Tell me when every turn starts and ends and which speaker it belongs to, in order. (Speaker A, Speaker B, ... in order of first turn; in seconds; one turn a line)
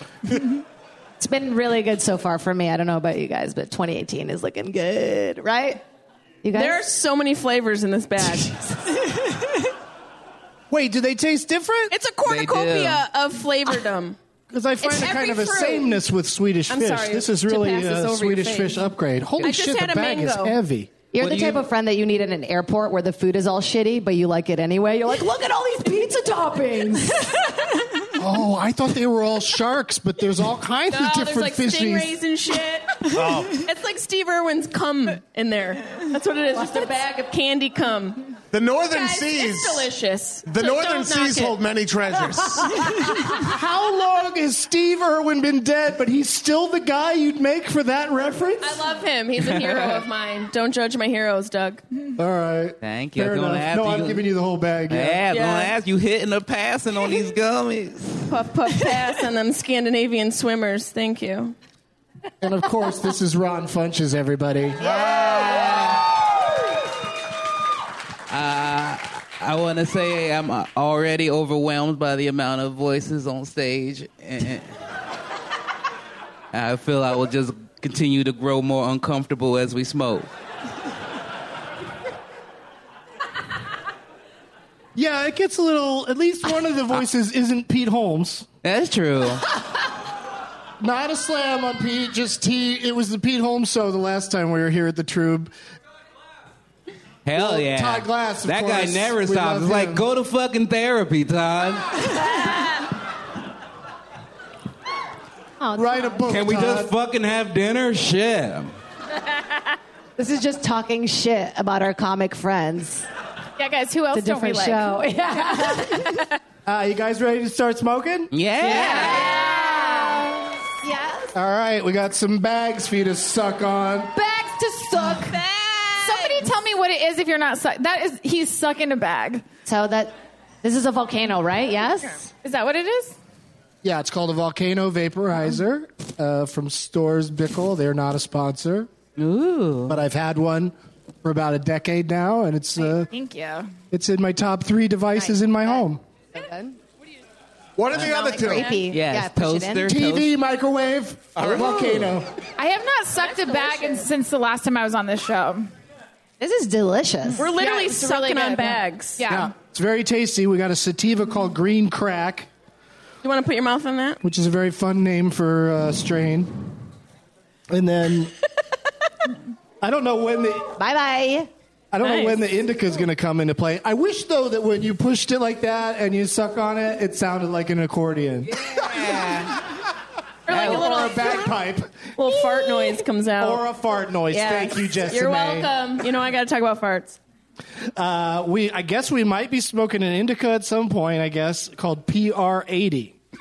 Speaker A: 1.2-5.8
Speaker A: 6.4-6.8
Speaker B: 6.5-8.9
Speaker C: 10.7-11.9
Speaker B: 11.9-14.2
Speaker D: 12.2-13.0
Speaker C: 14.5-20.9
Speaker B: 14.8-16.0
Speaker B: 16.7-18.8
Speaker B: 19.4-20.6
Speaker A: 21.1-27.4
Speaker D: 21.2-21.6
Speaker C: 28.1-32.1
Speaker B: 30.9-38.3
Speaker E: 33.0-33.6
Speaker E: 38.5-39.9
Speaker B: 38.9-41.5
Speaker E: 40.5-43.0
Speaker C: 43.1-48.8
Speaker B: 48.6-51.8
Speaker D: 49.4-50.0
Speaker C: 52.2-55.2
Speaker D: 52.8-54.2
Speaker D: 54.9-58.3
Speaker B: 55.3-55.7
Speaker B: 58.3-61.5
Speaker C: 62.4-64.9
Speaker D: 64.8-66.0
Speaker D: 68.3-74.7
Speaker D: 76.5-80.3
Speaker C: 85.0-88.5
Speaker D: 88.6-89.4
Speaker C: 90.8-95.5
Speaker D: 97.2-102.4
Speaker C: 97.3-100.0
Speaker A: 105.6-106.2
Speaker C: 105.7-106.9
Speaker D: 106.3-108.7
Speaker A: 110.2-113.1
Speaker F: 113.6-115.0
Speaker A: 114.1-116.2
Speaker C: 116.7-118.3
Speaker D: 118.3-119.3
Speaker A: 118.6-121.3
Speaker F: 118.6-120.3
Speaker C: 121.3-124.2
Speaker A: 124.1-125.4
Speaker F: 126.0-129.4
Speaker A: 129.6-132.3
Speaker F: 132.4-133.2
Speaker C: 133.8-138.9
Speaker D: 139.2-140.0
Speaker C: 139.9-143.1
Speaker F: 142.8-143.7
Speaker C: 143.9-146.0
Speaker A: 145.1-146.8
Speaker E: 147.8-148.8
Speaker A: 148.0-149.9
Speaker B: 148.3-148.8
Speaker D: 148.8-150.3
Speaker C: 149.8-152.3
Speaker E: 151.3-152.0
Speaker F: 152.6-155.7
Speaker A: 156.4-157.5
Speaker F: 157.3-159.5
Speaker B: 157.4-159.2
Speaker C: 159.3-162.5
Speaker B: 163.2-164.2
Speaker C: 164.2-166.7
Speaker C: 167.7-168.3
Speaker C: 169.8-170.7
Speaker A: 170.8-171.5
Speaker C: 171.9-178.7
Speaker B: 172.0-172.4
Speaker D: 178.5-179.6
Speaker B: 180.5-181.5
Speaker D: 180.5-180.9
Speaker C: 180.5-182.3
Speaker B: 182.2-183.6
Speaker C: 183.4-185.7
Speaker B: 184.3-187.2
Speaker C: 187.9-193.2